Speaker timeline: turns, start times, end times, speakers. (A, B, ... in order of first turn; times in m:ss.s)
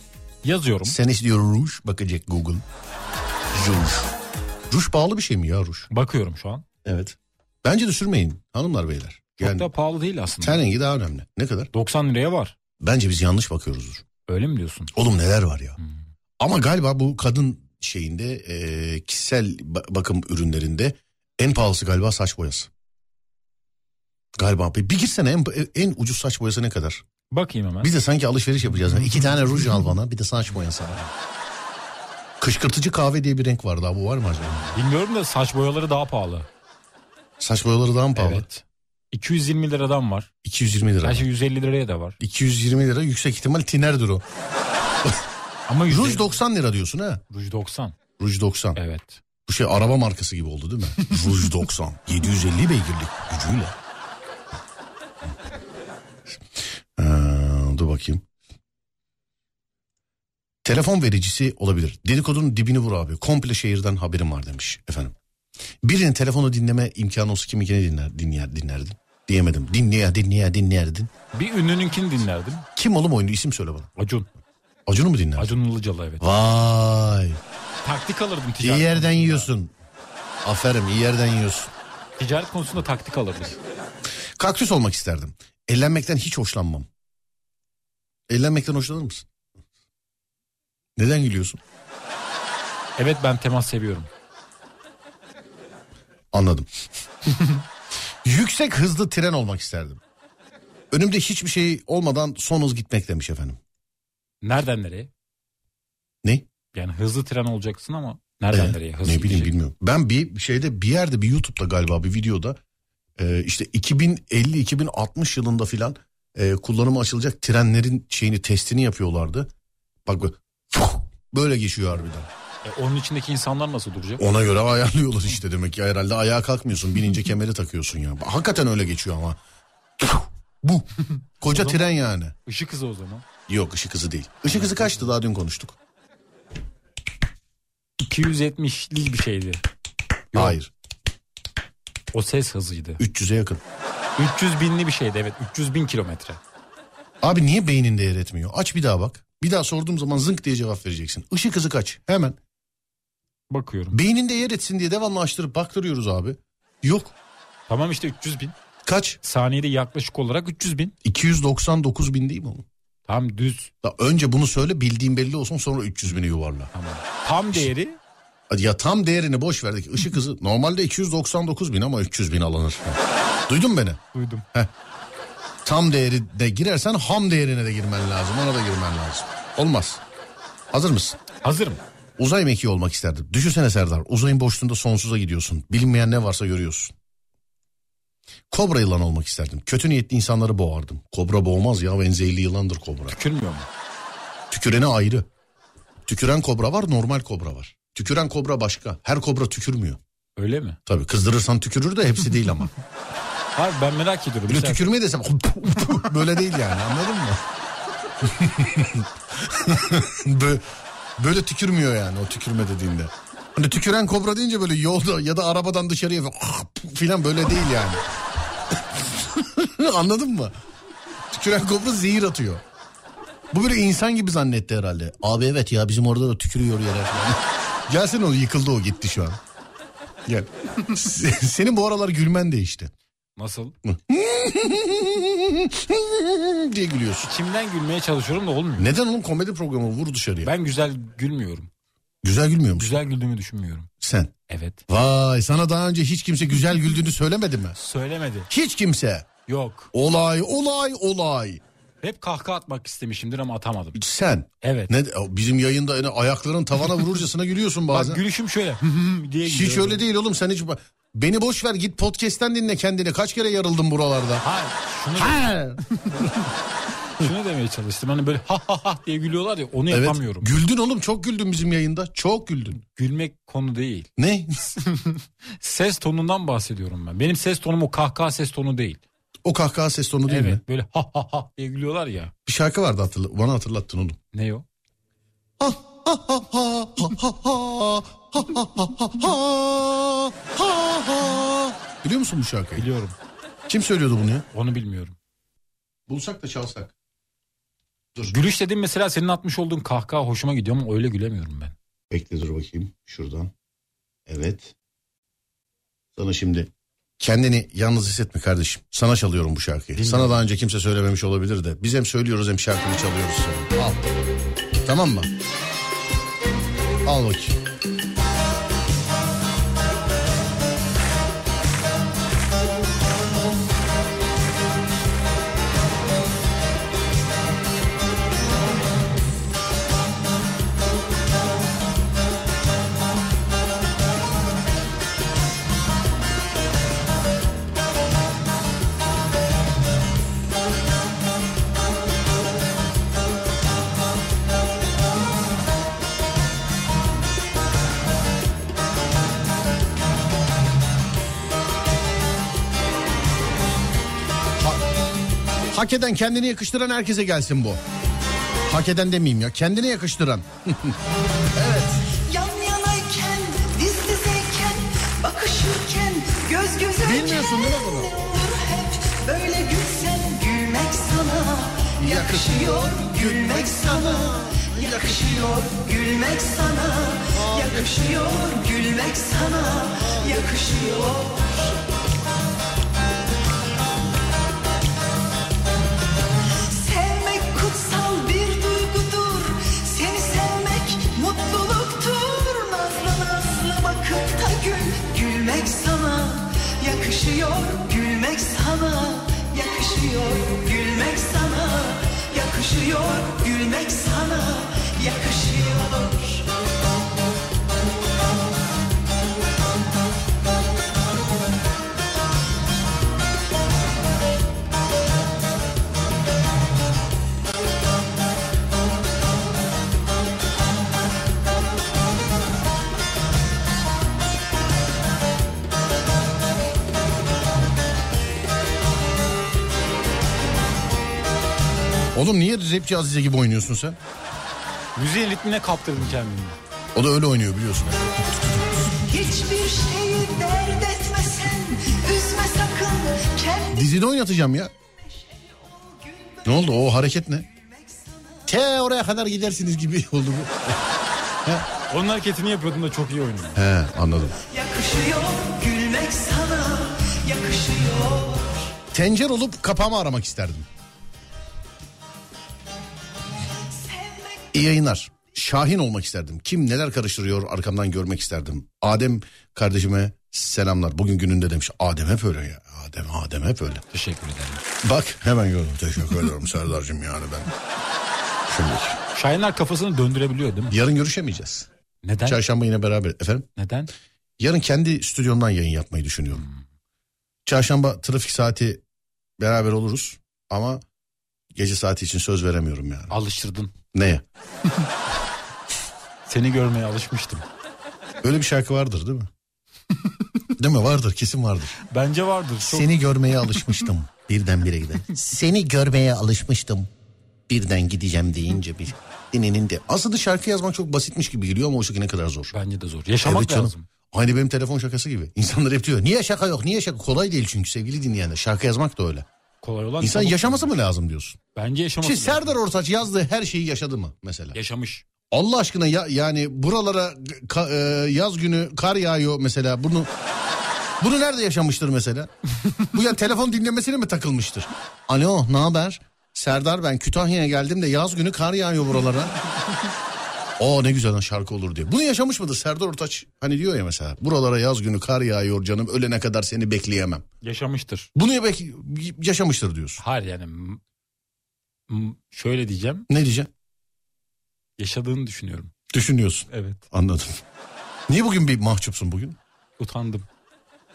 0:00.4-0:01.0 A
0:00.8-0:02.6 B
0:03.5-0:04.1 B
0:04.7-0:05.9 B
0:05.9-0:06.6 A
0:06.8-0:09.7 B
0:09.4-0:10.6 A
0:10.4-0:11.7 B
0:11.7-0:12.5 A
0:12.8-0:14.0 B
0:14.2-0:14.9 A
0:14.9-0:15.8 B
0:16.4-0:22.7 B
0:24.4-0:27.0 B
0:27.3-0:27.9 A
0:27.8-0:31.0 B
0:32.4-0:34.8 B
0:34.7-0:36.5 A
0:37.4-0:38.4 B
0:38.1-0:40.3 A
0:40.4-0:41.3 B
0:41.0-0:42.2 A
0:42.2-0:44.2 B
0:45.0-0:45.3 B
0:45.7-0:46.3 A
0:45.9-0:47.2 B
0:47.3-0:48.0 A
0:48.2-0:48.8 B
0:48.8-0:49.2 A
0:49.5-0:53.8 B
0:57.0-0:58.2 B
1:00.6-1:05.1 B
1:05.8-1:11.1 B
1:11.3-1:12.6 A
1:12.8-1:13.9 B
1:14.0-1:14.3 A
1:14.8-1:15.5 B
1:15.4-1:16.2 A
1:16.2-1:17.4 B
1:17.8-1:19.5 A
1:18.6-1:19.7 B
1:20.4-1:21.7 B
1:22.2-1:23.6 A
1:24.4-1:26.9 B
1:28.3-1:29.2 B
1:31.0-1:31.6 B
1:33.0-1:34.1 A
1:36.3-1:36.7 B
1:38.2-1:40.0 B
1:40.9-1:43.6 B
1:44.4-1:45.1 A
1:46.7-1:49.5 A
1:48.5-1:52.6 B
1:53.2-1:59.5 B
2:00.0-2:02.3 B
2:02.6-2:04.2 A
2:04.2-2:09.4 B
2:10.0-2:10.9 B
2:11.4-2:12.3 B
2:11.4-2:11.8 A
2:12.4-2:13.2 A
2:13.5-2:15.8 B
2:14.5-2:15.0 A
2:18.0-2:19.6 A
2:20.3-2:20.6 A
2:20.3-2:20.7 B
2:22.1-2:23.0 A
2:23.0-2:23.6 B
2:24.2-2:26.4 A
2:27.2-2:32.4 B
2:33.5-2:34.0 A
2:33.9-2:37.1 B
2:37.7-2:38.6 A
2:38.8-2:39.2 B
2:39.2-2:41.0 A
2:41.0-2:42.6 B
2:43.1-2:43.7 A
2:43.8-2:46.7 B
2:46.7-2:48.0 A
2:48.5-2:54.0 B
2:54.1-2:54.4 A
2:55.6-3:00.0 B
3:00.7-3:01.2 B
3:01.4-3:01.8 A
3:02.2-3:06.9 B
3:08.5-3:13.2 B
3:13.1-3:13.7 A
3:14.5-3:15.3 B
3:16.0-3:20.0 B
3:20.4-3:20.8 A
3:20.8-3:22.7 B
3:23.6-3:24.8 A
3:24.5-3:27.4 B
3:28.2-3:38.0 B
3:38.8-3:40.5 B
3:41.3-3:42.6 B
3:43.5-3:49.4 B
3:50.2-3:52.9 B
3:53.4-3:53.7 A
3:53.8-3:57.3 B
3:57.2-3:58.9 A
3:58.8-4:00.5 B
4:00.4-4:01.7 A
4:02.2-4:02.9 B
4:02.8-4:03.9 A
4:04.0-4:04.3 B
4:04.5-4:04.8 A
4:04.9-4:07.8 B
4:07.8-4:08.5 A
4:08.5-4:09.3 B
4:09.5-4:09.9 A
4:09.9-4:11.6 B
4:12.0-4:14.0 A
4:13.9-4:18.2 B
4:14.6-4:14.9 A
4:17.9-4:20.0 A
4:19.4-4:24.4 B
4:24.4-4:26.3 A
4:25.2-4:26.2 B
4:27.1-4:30.5 A
4:29.9-4:32.8 B
4:32.9-4:34.1 A
4:34.2-4:34.6 B
4:34.8-4:39.0 A
4:39.4-4:40.6 B
4:40.3-4:42.3 A
4:42.4-4:44.2 B
4:44.3-4:44.6 A
4:45.6-4:52.9 B
4:52.8-4:53.2 A
4:53.7-4:54.5 B
4:54.5-4:55.2 A
4:56.1-4:56.9 B
4:58.3-5:01.7 A
5:02.1-5:03.5 B
5:04.3-5:04.7 B
5:06.2-5:14.1 B
5:10.0-5:10.4 A
5:14.8-5:15.3 B
5:17.0-5:17.6 B
5:55.7-5:57.8 B
5:58.6-6:01.0 B
6:01.5-6:02.0 B
6:02.3-6:21.7 C
6:07.0-6:08.2 B
6:12.0-6:15.2 B
6:17.3-6:17.9 B
6:26.7-6:46.4 C
7:12.1-7:14.0 B
7:15.0-7:16.6 A
7:16.9-7:18.8 B
7:19.1-7:23.8 C
7:23.7-7:24.7 B
7:25.5-7:26.4 C
7:26.4-7:27.5 B
7:27.7-7:28.4 C
7:28.5-7:30.8 B
7:31.9-7:33.6 A
7:33.5-7:34.4 B
7:34.5-7:38.7 C
7:38.9-7:40.7 B
7:43.8-7:44.5 C
7:44.5-7:53.8 B
7:53.9-7:54.6 A
7:54.8-7:57.5 B
7:58.5-7:59.0 B
7:59.1-8:00.8 A
8:00.7-8:01.7 B
8:02.0-8:02.4 A
8:02.2-8:03.5 B
8:03.6-8:03.9 A
8:04.4-8:06.4 B
8:07.4-8:08.8 B
8:09.4-8:10.8 B
8:11.5-8:13.1 B
8:13.1-8:13.7 A
8:13.9-8:14.2 B
8:16.2-8:17.4 A
8:18.2-8:19.3 B
8:20.6-8:21.8 B
8:21.8-8:23.6 A
8:22.6-8:26.9 B
8:27.5-8:32.5 B
8:32.5-8:33.8 A
8:33.2-8:39.3 B
8:39.6-8:40.7 A
8:40.0-8:41.4 B
8:41.5-8:42.6 A
8:42.0-8:44.6 B
8:44.5-8:45.0 A
8:45.3-8:50.1 B
8:51.0-8:59.3 B
9:00.6-9:07.2 B
9:07.4-9:08.1 A
9:08.1-9:10.0 B
9:10.0-9:10.8 A
9:11.9-9:13.1 A
9:13.1-9:13.5 B
9:14.8-9:15.7 A
9:15.9-9:17.4 B
9:16.5-9:16.8 A
9:18.1-9:19.4 B
9:19.8-9:20.2 A